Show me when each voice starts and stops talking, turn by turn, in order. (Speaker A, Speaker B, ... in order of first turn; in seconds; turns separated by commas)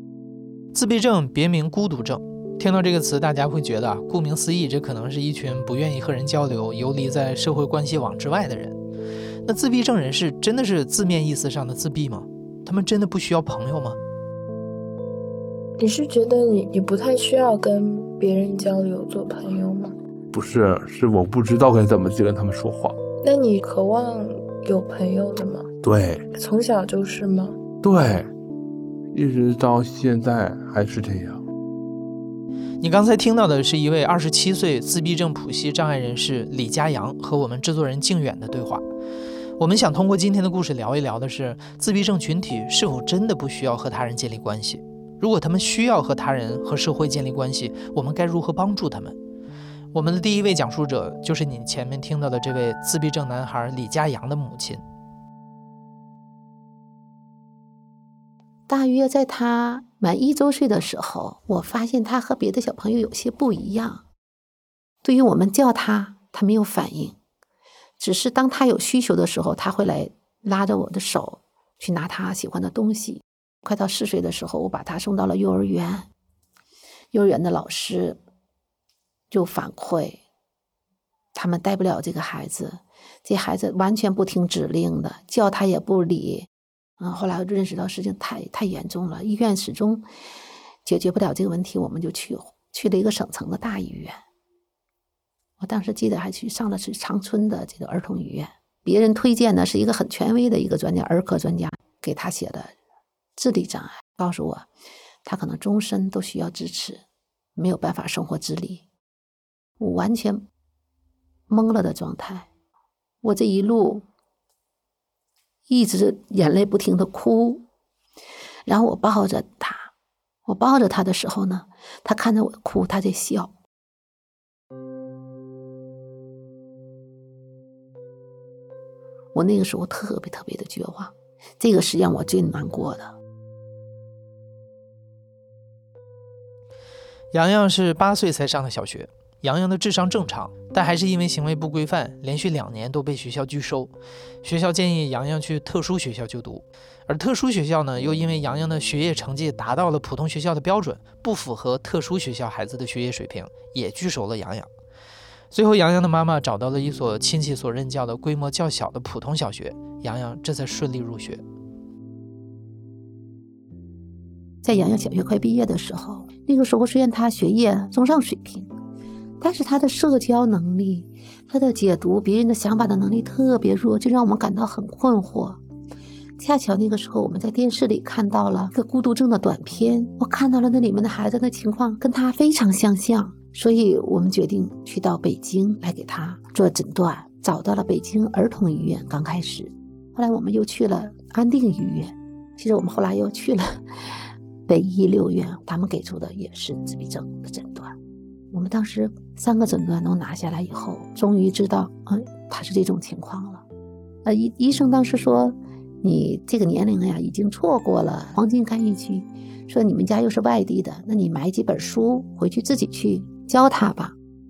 Speaker A: 0.7-8.8, Speaker A: 9.4-14.0, Speaker B: 15.8-19.9, Speaker C: 20.3-23.0, Speaker B: 23.2-25.7, Speaker C: 25.8-26.2, Speaker B: 26.3-27.6, Speaker C: 27.8-28.3, Speaker C: 29.1-31.4, Speaker A: 32.8-38.8, Speaker A: 39.6-49.1, Speaker A: 49.9-54.8, Speaker D: 58.7-64.0, Speaker D: 65.0-67.2, Speaker D: 68.0-76.1, Speaker D: 77.1-78.2, Speaker D: 79.3-80.2, Speaker D: 81.3-90.0, Speaker D: 90.8-94.2, Speaker D: 95.6-102.7, Speaker D: 103.3-104.7, Speaker D: 105.2-107.0, Speaker D: 107.5-108.8, Speaker D: 109.8-110.4, Speaker D: 111.5-112.5, Speaker D: 113.2-114.0, Speaker D: 115.7-117.6, Speaker D: 118.7-119.9, Speaker D: 120.5-123.5, Speaker D: 129.3-133.1, Speaker A: 137.3-143.9, Speaker A: 144.4-154.7, Speaker A: 155.5-161.4, Speaker D: 164.6-168.7, Speaker D: 169.4-175.6, Speaker D: 176.4-194.1, Speaker D: 194.7-197.9, Speaker D: 198.5-203.6, Speaker D: 204.2-214.2